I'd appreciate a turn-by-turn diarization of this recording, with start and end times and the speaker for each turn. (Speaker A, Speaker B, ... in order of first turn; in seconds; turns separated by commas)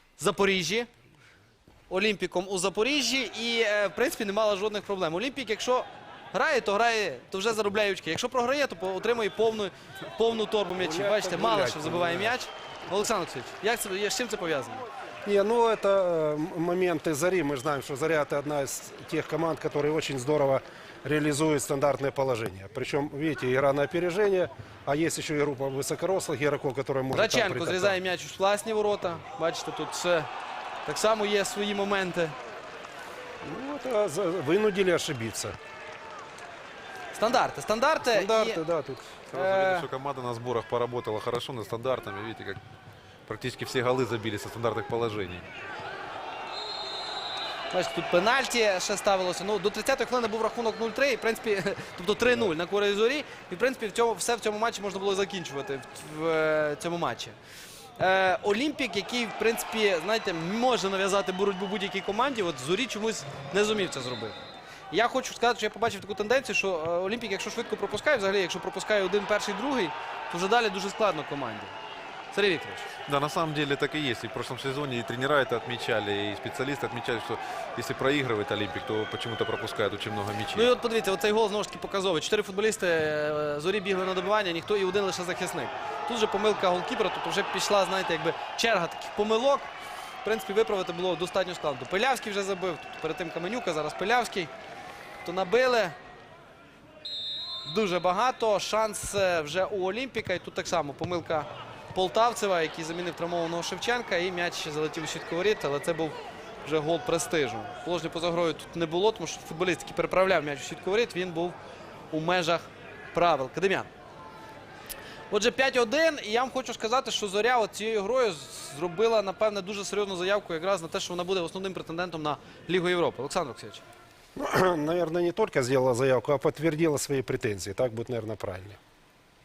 Speaker A: 0.2-0.9, Speaker A: 1.9-14.8, Speaker B: 10.8-12.4, Speaker B: 15.2-28.0, Speaker A: 27.1-30.3, Speaker A: 30.8-32.3, Speaker B: 33.4-35.5, Speaker A: 37.1-38.6, Speaker B: 38.0-39.2, Speaker C: 39.3-42.6, Speaker A: 39.3-39.9, Speaker C: 43.3-45.5, Speaker A: 47.7-57.4, Speaker A: 58.0-64.3, Speaker A: 64.9-71.7, Speaker A: 72.3-72.9, Speaker C: 73.1-80.7, Speaker A: 80.5-89.7, Speaker A: 90.2-94.5, Speaker A: 95.2-96.0, Speaker A: 97.7-111.6, Speaker A: 112.1-113.9, Speaker A: 115.3-123.8, Speaker B: 124.4-128.8